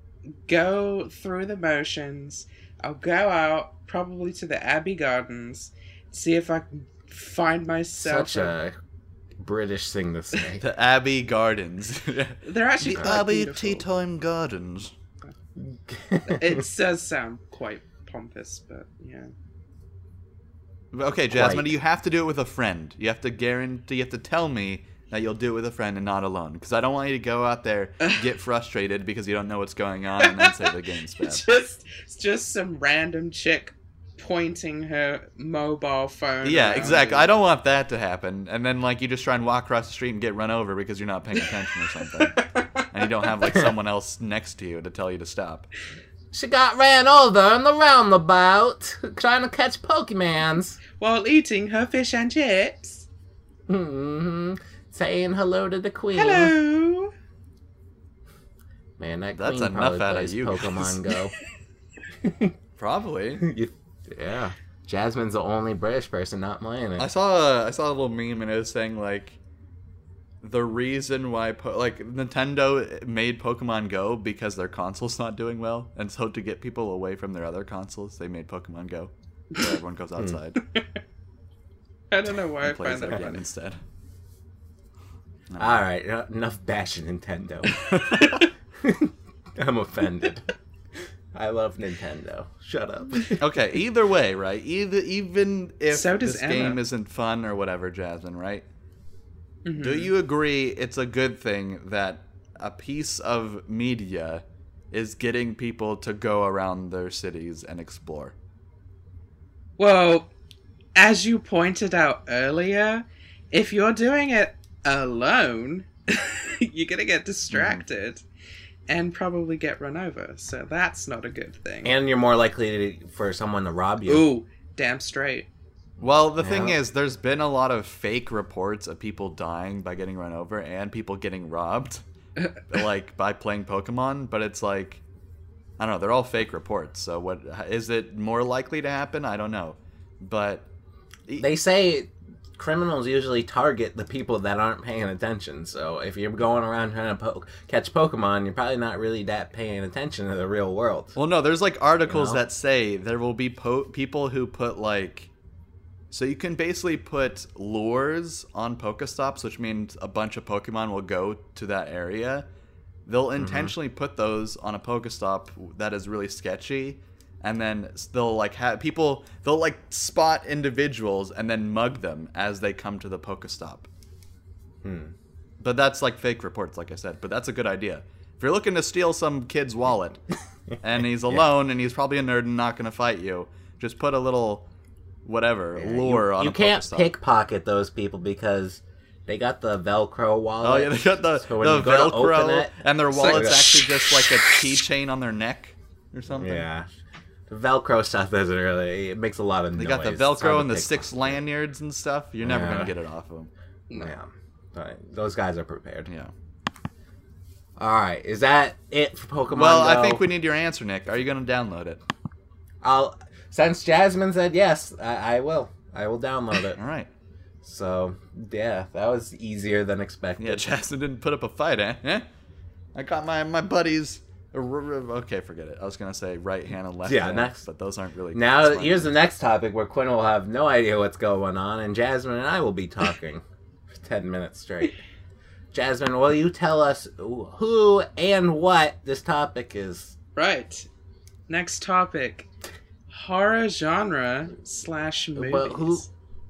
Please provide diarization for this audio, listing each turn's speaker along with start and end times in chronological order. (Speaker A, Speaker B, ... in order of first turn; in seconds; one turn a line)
Speaker A: 0.5-8.5
Speaker B: 8.0-8.8
Speaker B: 9.4-10.6
Speaker C: 10.6-14.9
Speaker A: 12.4-13.8
Speaker B: 15.6-16.6
Speaker A: 16.2-19.3
Speaker C: 20.9-31.4
Speaker B: 21.3-21.8
Speaker A: 30.2-37.3
Speaker C: 36.4-45.7
Speaker A: 42.0-42.9
Speaker B: 46.3-50.8
Speaker A: 51.0-53.1
Speaker B: 53.7-56.5
Speaker A: 56.1-57.1
Speaker B: 59.0-61.3
Speaker C: 59.3-61.0
Speaker B: 62.2-62.5
Speaker C: 62.8-63.5
Speaker B: 63.4-67.1
Speaker C: 67.0-69.4
Speaker C: 70.4-80.6
Speaker A: 82.1-83.4
Speaker C: 82.6-83.8
Speaker C: 85.5-85.8
Speaker B: 85.6-87.9
Speaker C: 87.8-88.4
Speaker A: 87.8-88.5
Speaker B: 88.8-90.5
Speaker B: 91.3-93.4
Speaker C: 93.4-98.7
Speaker A: 95.9-96.8
Speaker A: 99.7-100.1
Speaker C: 99.8-108.3
Speaker A: 109.8-110.3
Speaker A: 111.0-118.2
Speaker C: 117.5-117.8
Speaker A: 118.9-122.0
Speaker B: 121.8-124.3
Speaker A: 124.1-125.5
Speaker C: 126.0-132.0
Speaker B: 126.4-126.8
Speaker C: 132.7-135.0
Speaker C: 135.8-140.7
Speaker B: 141.4-151.2
Speaker C: 151.2-155.3
Speaker B: 152.1-152.4
Speaker C: 156.1-162.5
Speaker C: 163.1-173.9
Speaker B: 163.4-163.8
Speaker B: 174.8-175.1
Speaker C: 175.6-180.2
Speaker C: 180.8-184.7
Speaker C: 185.2-187.1
Speaker B: 185.8-193.8
Speaker C: 190.6-196.7
Speaker A: 193.2-193.6
Speaker B: 196.3-196.9
Speaker B: 197.5-201.4
Speaker C: 199.8-203.5
Speaker B: 202.4-202.9
Speaker A: 203.9-204.2
Speaker B: 203.9-206.1
Speaker B: 207.8-210.2
Speaker C: 209.5-212.0
Speaker B: 212.8-216.8
Speaker C: 216.8-217.1
Speaker B: 217.6-220.7
Speaker C: 220.4-222.3
Speaker C: 222.9-229.1
Speaker B: 227.1-227.6
Speaker B: 228.3-235.0
Speaker B: 235.7-240.1
Speaker A: 240.4-240.9
Speaker A: 241.5-242.5
Speaker A: 243.1-246.1
Speaker B: 245.4-246.1